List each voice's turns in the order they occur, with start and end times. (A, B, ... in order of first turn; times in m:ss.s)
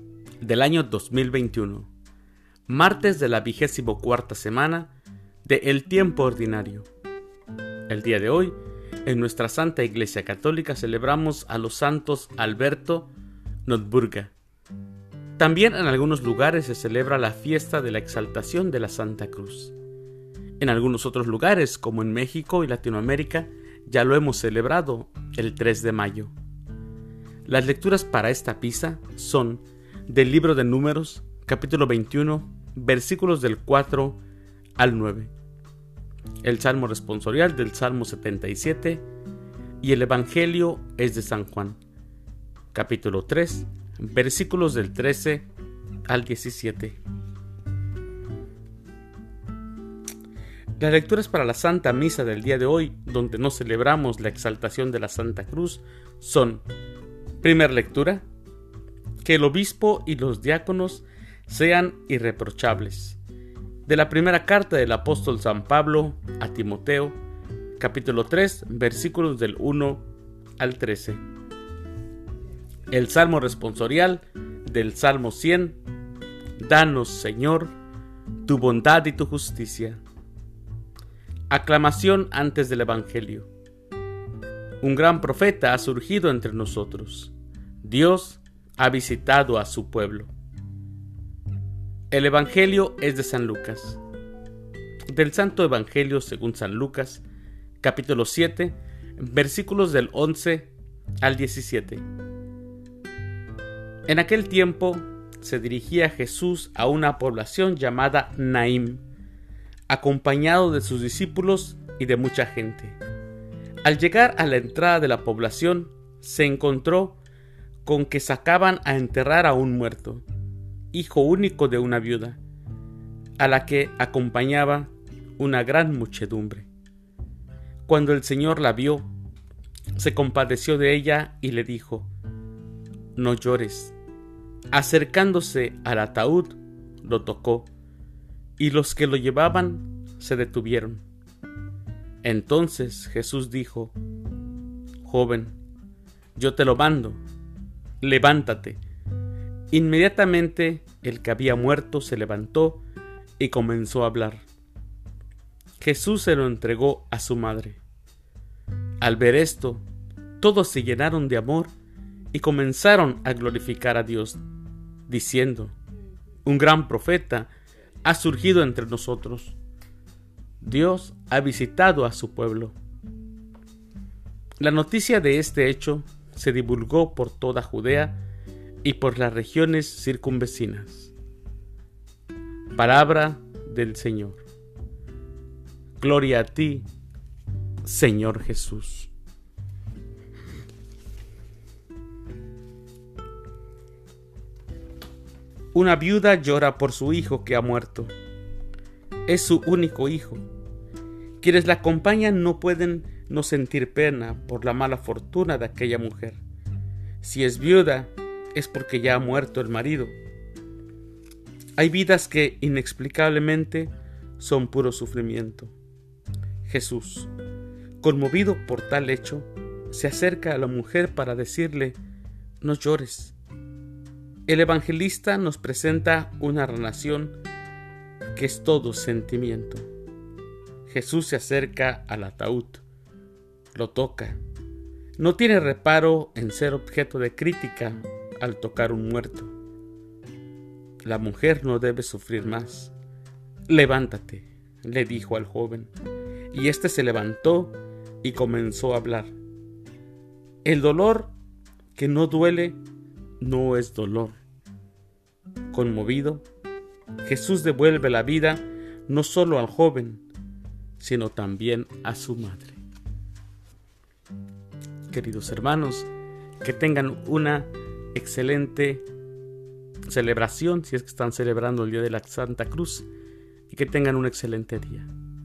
0:00.4-0:01.9 A
0:02.7-0:04.9 A
0:05.4-0:06.9 A
0:07.9-0:13.1 A
0:13.6-0:14.3 A
0:15.4-0:19.7 A
0:20.6-0:26.3 A
0:27.4-0:34.2 A
0:34.8-0:35.3 A
0:36.4-0:39.0 A
0:39.8-0:41.8 A
0:42.7-0:45.5 A
0:46.0-0:47.0 A
0:50.8-0:56.6 A
0:57.4-0:58.2 A
0:59.2-1:03.2 A
1:03.8-1:07.2 A
1:07.8-1:10.0 A
1:10.6-1:11.2 A
1:12.9-1:15.8 A
1:16.6-1:17.7 A
1:18.4-1:20.0 A
1:21.5-1:23.5 A
1:24.8-1:30.3 A
1:32.1-1:34.0 A
1:35.1-1:37.2 A
1:37.8-1:40.7 A
1:41.2-1:42.0 A
1:44.0-1:49.0 A
1:49.9-1:53.0 A
1:53.8-1:57.2 A
1:57.8-2:00.2 A
2:00.9-2:02.4 A
2:03.4-2:06.7 A
2:07.9-2:09.1 A
2:10.0-2:12.1 A
2:13.2-2:13.9 A
2:14.7-2:17.7 A
2:18.6-2:21.0 A
2:22.2-2:23.9 A
2:25.0-2:25.6 A
2:26.4-2:27.2 A
2:28.0-2:28.8 A
2:29.7-2:32.8 A
2:33.4-2:34.4 A
2:35.8-2:37.8 A
2:39.0-2:39.8 A
2:40.4-2:41.7 A
2:42.3-2:44.4 A
2:45.1-2:45.7 A
2:46.4-2:47.5 A
2:48.0-2:49.6 A
2:50.6-2:52.7 A
2:54.6-2:58.2 A
2:58.8-3:01.1 A
3:02.7-3:04.4 A
3:06.0-3:06.9 A
3:07.8-3:09.1 A
3:15.7-3:18.1 A
3:19.2-3:20.4 A
3:21.4-3:26.4 A
3:27.2-3:30.1 A
3:31.8-3:35.7 A
3:36.6-3:37.3 A
3:38.0-3:42.0 A
3:42.6-3:43.3 A
3:44.5-3:47.4 A
3:48.3-3:49.9 A
3:50.9-3:52.8 A
3:53.7-3:54.4 A
3:55.2-3:59.5 A
4:01.0-4:02.9 A
4:03.7-4:05.9 A
4:06.5-4:09.3 A
4:10.6-4:11.3 A
4:11.9-4:12.8 A
4:13.4-4:14.4 A
4:15.7-4:16.4 A
4:17.2-4:20.2 A
4:21.0-4:22.8 A
4:25.1-4:26.1 A
4:26.6-4:29.0 A
4:30.1-4:33.1 A
4:33.7-4:35.1 A